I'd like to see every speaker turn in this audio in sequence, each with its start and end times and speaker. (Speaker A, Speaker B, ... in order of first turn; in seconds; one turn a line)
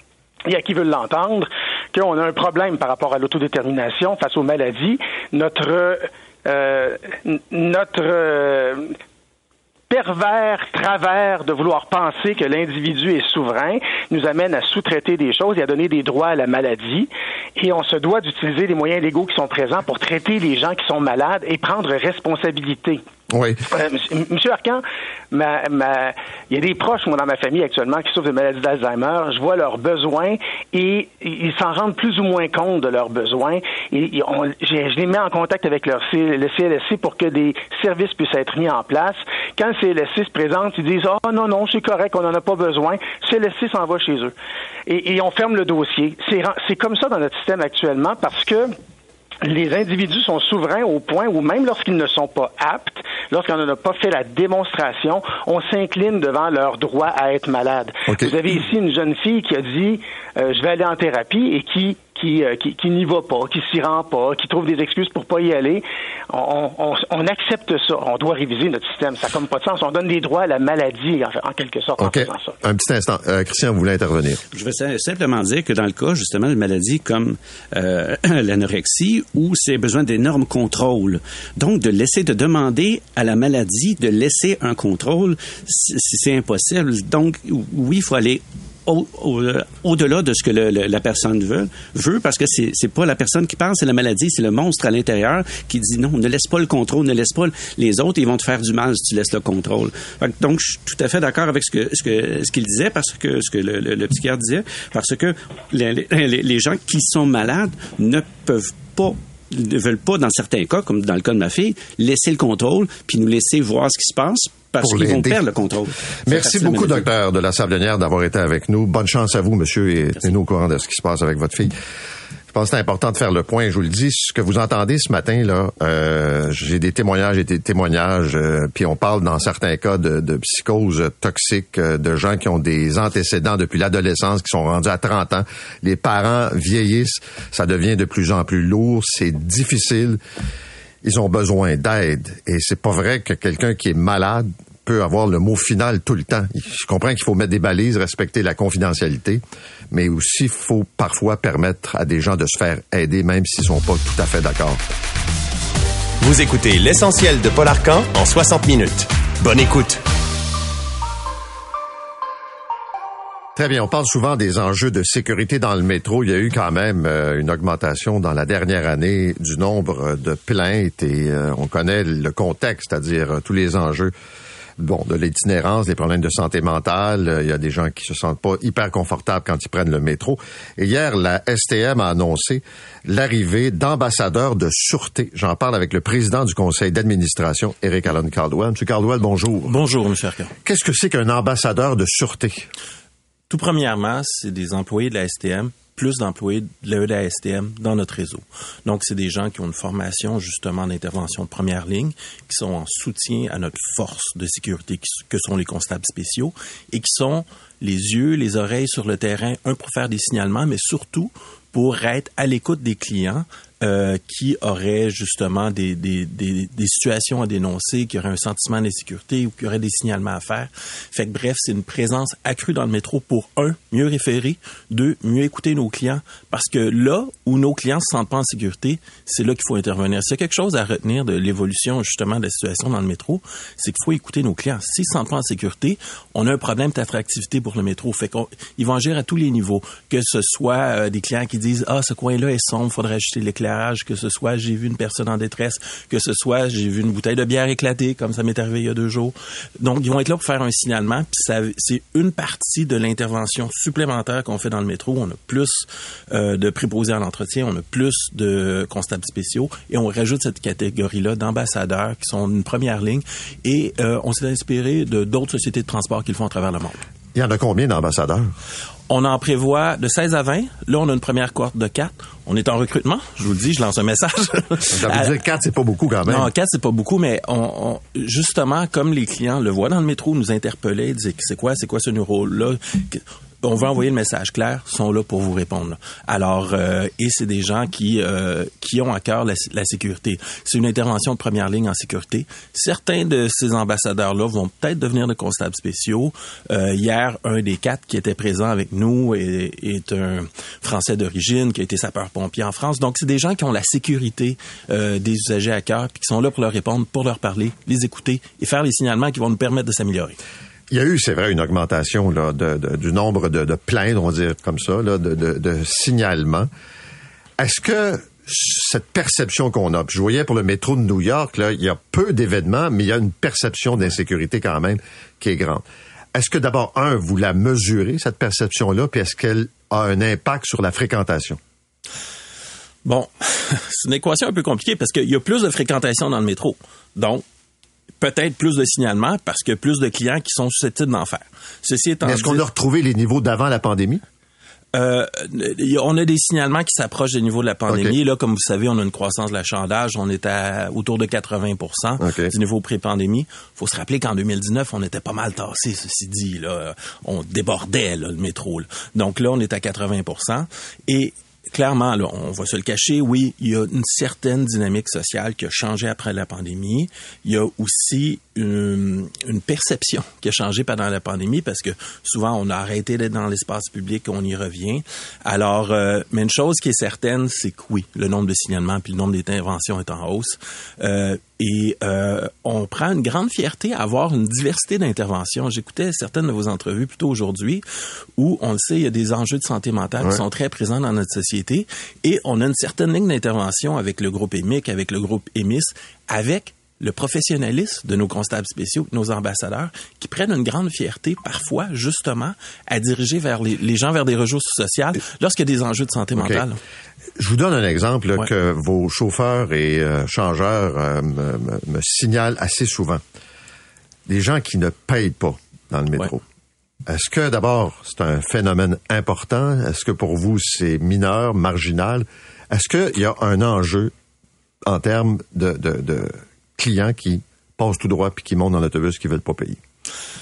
Speaker A: 0.5-9.0
Speaker A: 9.9-23.0
Speaker B: 23.3-23.6
Speaker A: 23.7-44.3
Speaker A: 44.9-48.7
Speaker A: 49.4-72.6
Speaker B: 58.1-58.4
Speaker B: 72.0-74.4
Speaker C: 74.5-117.1
Speaker B: 114.8-115.4
Speaker B: 116.3-121.7
Speaker B: 122.5-140.2
Speaker B: 141.0-154.8
Speaker D: 156.2-160.0
Speaker B: 163.6-174.1
Speaker B: 174.8-189.8
Speaker E: 189.7-190.5
Speaker B: 190.6-192.7
Speaker E: 193.5-267.0
Speaker B: 267.4-268.5
Speaker E: 269.1-275.3
Speaker B: 274.9-276.5
Speaker E: 276.3-310.4
Speaker B: 310.9-316.7
Speaker B: 317.6-331.6
Speaker E: 333.0-337.4
Speaker E: 338.2-342.6
Speaker B: 342.2-344.2
Speaker E: 344.9-387.8
Speaker B: 347.9-348.2
Speaker B: 352.2-352.5
Speaker E: 388.4-406.8
Speaker B: 406.4-406.6
Speaker B: 407.4-413.2
Speaker B: 414.3-416.4
Speaker B: 417.1-424.1
Speaker B: 424.9-429.8